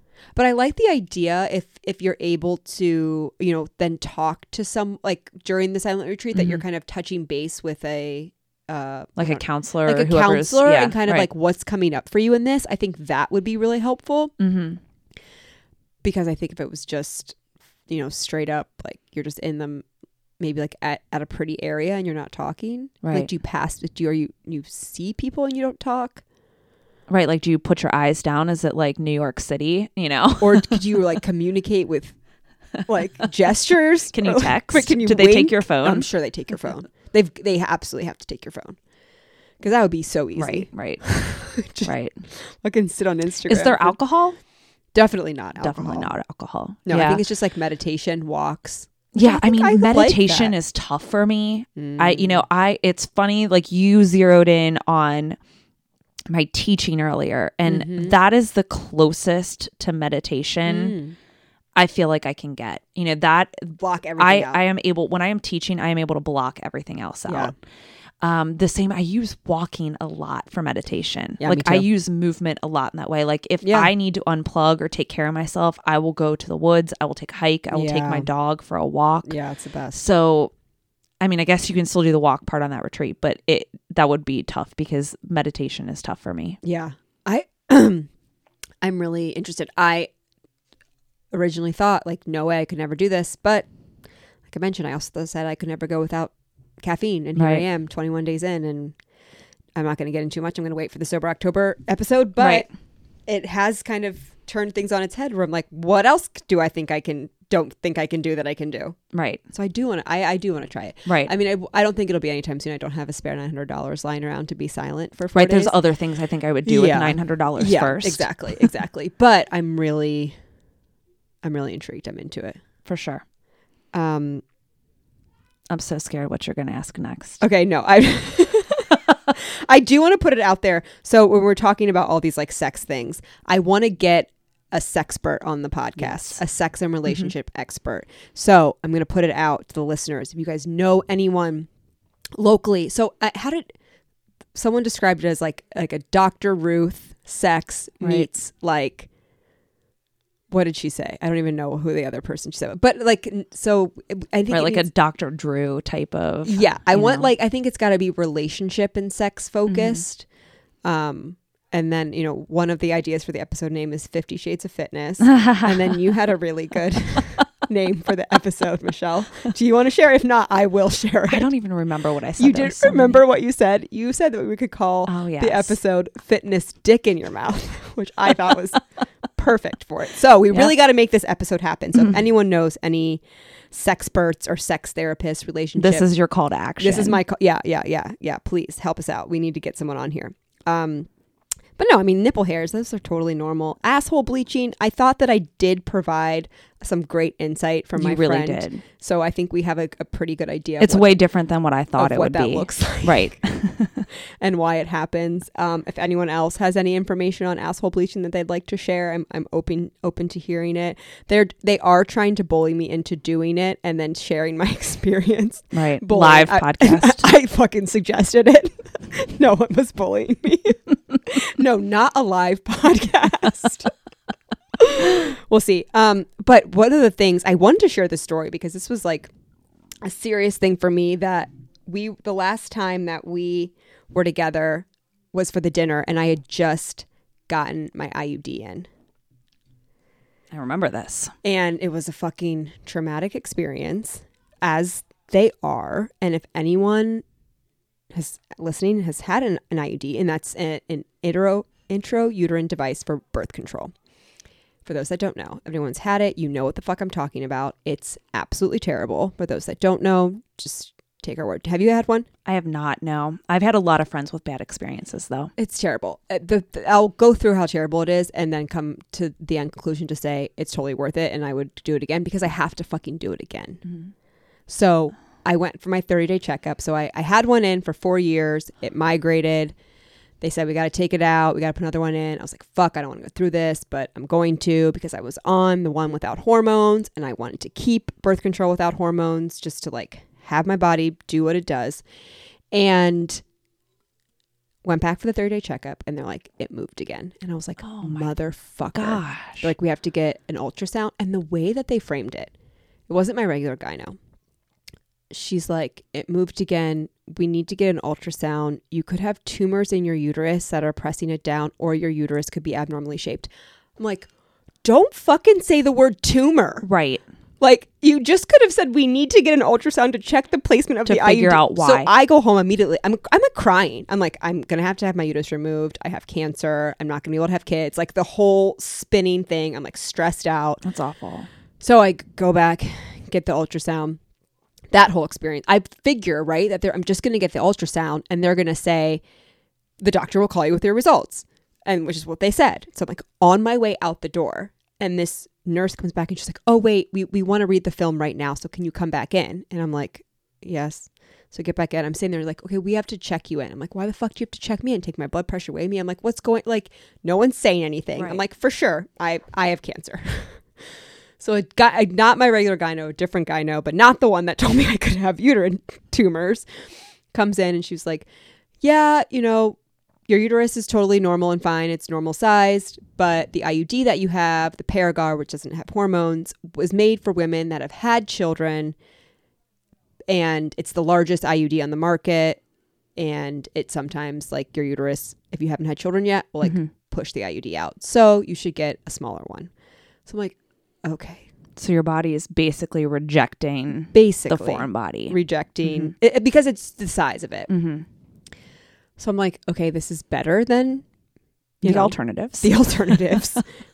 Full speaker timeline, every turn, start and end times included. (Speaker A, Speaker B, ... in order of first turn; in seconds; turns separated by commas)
Speaker A: 0.4-14.3, Speaker B: 6.3-6.6, Speaker B: 9.2-11.3, Speaker B: 14.4-14.8, Speaker A: 16.0-17.4, Speaker A: 17.9-19.9, Speaker A: 20.4-26.2, Speaker B: 23.0-23.3, Speaker B: 27.1-31.0, Speaker A: 30.4-32.2, Speaker A: 32.9-38.8, Speaker B: 34.1-36.1, Speaker A: 39.6-44.0, Speaker B: 40.4-42.2, Speaker B: 43.5-44.4, Speaker A: 44.9-46.1, Speaker B: 45.6-47.2, Speaker A: 46.9-50.5, Speaker B: 49.1-55.4, Speaker A: 51.8-52.4, Speaker B: 56.3-61.0, Speaker A: 57.7-58.1, Speaker A: 60.7-61.2, Speaker B: 61.8-67.5, Speaker A: 63.8-64.6, Speaker A: 67.3-67.5, Speaker B: 68.2-79.4, Speaker A: 71.4-71.9, Speaker A: 73.6-73.9, Speaker A: 77.7-78.3, Speaker A: 79.3-80.0, Speaker B: 79.9-80.5, Speaker B: 81.2-86.6, Speaker A: 86.6-88.1, Speaker A: 88.8-90.1, Speaker A: 91.3-93.7, Speaker A: 94.5-99.0, Speaker B: 97.4-97.7, Speaker A: 99.8-102.7, Speaker B: 102.4-102.7, Speaker A: 103.3-109.0, Speaker B: 109.1-109.4, Speaker A: 109.5-115.8, Speaker B: 111.1-111.3, Speaker B: 115.3-118.7, Speaker A: 116.7-120.3, Speaker A: 121.4-122.6, Speaker B: 122.9-123.2, Speaker A: 123.9-124.4, Speaker B: 125.7-127.4, Speaker A: 127.4-141.7, Speaker B: 136.0-136.4, Speaker B: 137.1-137.3, Speaker A: 142.4-143.7, Speaker A: 144.6-149.1, Speaker B: 148.0-148.3, Speaker A: 150.5-154.9, Speaker B: 154.5-157.3, Speaker A: 156.4-160.3, Speaker B: 159.7-160.0, Speaker A: 160.8-171.5, Speaker B: 165.3-165.7, Speaker B: 171.3-173.2, Speaker A: 172.4-178.8, Speaker B: 175.1-175.8, Speaker A: 179.3-186.1, Speaker B: 185.8-187.2, Speaker A: 186.8-191.1, Speaker A: 191.8-201.2, Speaker B: 198.0-198.8, Speaker B: 200.8-204.1, Speaker A: 202.0-203.4, Speaker A: 204.4-223.9, Speaker B: 215.7-217.2, Speaker A: 224.8-229.3, Speaker A: 230.0-238.9, Speaker B: 240.5-241.3, Speaker A: 241.4-247.2, Speaker A: 248.1-253.9, Speaker A: 254.8-262.3, Speaker B: 262.5-265.5, Speaker A: 265.6-273.8, Speaker B: 273.9-274.1, Speaker A: 274.7-279.7, Speaker A: 280.4-292.0, Speaker A: 292.7-293.4, Speaker A: 294.9-302.5, Speaker B: 297.8-298.3, Speaker B: 298.9-299.7, Speaker A: 303.1-304.2, Speaker A: 305.3-314.3, Speaker A: 314.8-316.9, Speaker B: 316.8-317.2, Speaker A: 317.6-330.8, Speaker B: 321.1-322.1, Speaker B: 330.8-331.5, Speaker A: 331.8-334.2, Speaker A: 334.9-339.2, Speaker A: 340.0-360.6, Speaker B: 358.2-358.4, Speaker A: 361.4-366.7, Speaker A: 367.3-368.3, Speaker A: 368.8-369.8, Speaker A: 370.3-378.9, Speaker A: 380.3-382.6, Speaker A: 383.2-389.7, Speaker B: 386.6-386.9, Speaker A: 390.3-391.5, Speaker B: 391.8-396.1, Speaker A: 394.1-397.7, Speaker B: 397.7-398.1, Speaker A: 399.2-401.1, Speaker A: 401.8-403.6, Speaker B: 401.8-403.2